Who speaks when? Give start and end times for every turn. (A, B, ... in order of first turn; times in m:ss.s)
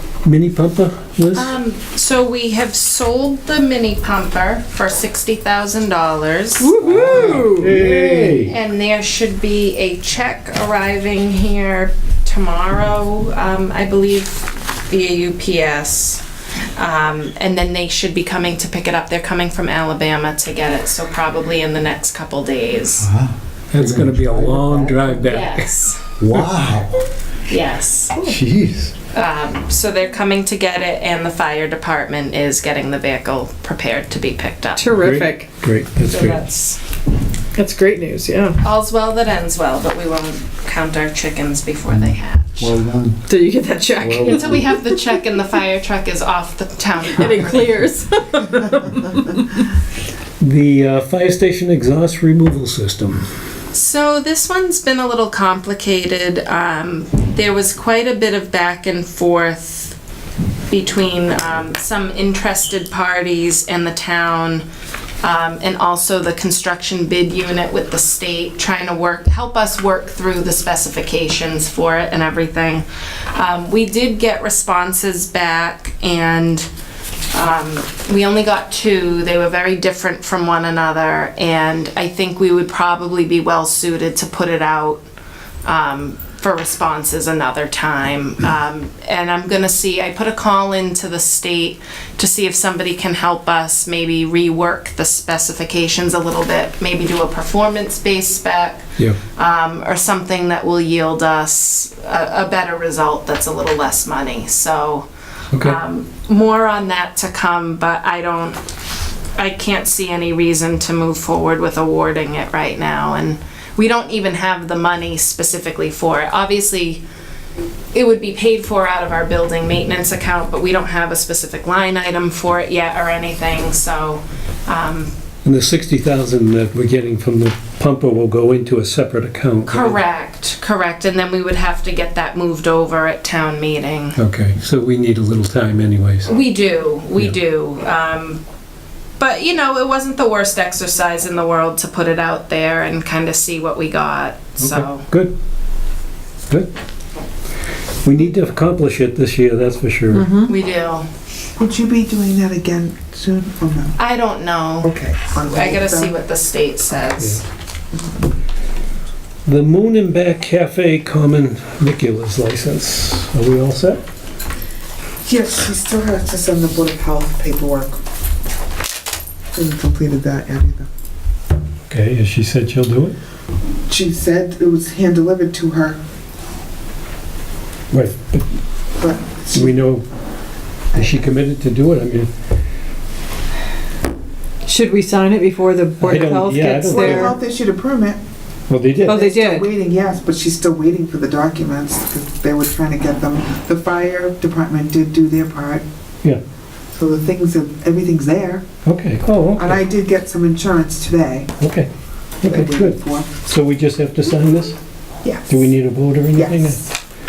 0:00.2-0:01.5 A
0:01.3-0:06.7 B
0:06.6-0:07.8 C
0:06.8-0:07.7 D
0:06.8-0:08.5 A
0:07.8-0:16.2 B
0:16.8-0:23.1 B
0:23.0-0:25.1 D
0:23.7-0:25.7 A
0:25.2-0:26.0 B
0:26.2-0:27.0 D
0:27.5-0:28.2 B
0:28.2-0:28.9 D
0:29.1-0:34.9 B
0:34.8-0:35.5 C
0:34.9-0:36.4 A
0:36.0-0:36.8 B
0:37.5-0:38.6 C
0:38.6-0:42.6 B
0:41.9-0:43.2 D
0:43.3-0:45.0 C
0:44.0-0:44.7 D
0:44.2-0:47.8 B
0:47.1-0:49.4 C
0:50.4-0:53.3 A
0:53.7-1:00.0 B
1:00.7-1:04.6 B
1:05.2-1:16.7 B
1:17.3-1:25.0 B
1:25.6-1:38.8 B
1:39.4-1:48.6 B
1:45.5-1:45.8 A
1:49.4-1:57.0 B
1:57.9-2:05.1 B
2:05.4-2:10.0 A
2:09.7-2:14.2 B
2:14.2-2:16.3 A
2:16.3-2:18.4 B
2:19.2-2:25.1 B
2:24.6-2:25.3 A
2:28.0-2:30.3 A
2:30.1-2:30.5 C
2:30.4-2:31.1 B
2:31.6-2:34.0 E
2:34.0-2:37.4 B
2:34.8-2:36.1 E
2:39.4-2:44.0 A
2:45.2-2:47.9 E
2:49.5-2:50.9 E
2:51.9-2:53.2 A
2:53.9-2:56.0 E
2:57.9-2:58.5 A
2:59.0-2:59.8 E
2:59.5-3:00.0 A
3:00.9-3:02.3 A
3:04.6-3:07.4 C
3:06.0-3:07.4 A
3:06.8-3:08.2 E
3:08.7-3:09.2 A
3:09.0-3:09.7 C
3:09.1-3:15.8 E
3:16.9-3:18.6 E
3:18.8-3:19.8 A
3:19.5-3:21.5 E
3:21.6-3:21.9 A
3:22.4-3:24.8 A
3:22.4-3:23.3 E
3:25.2-3:25.6 E
3:25.5-3:26.8 A
3:26.3-3:26.8 E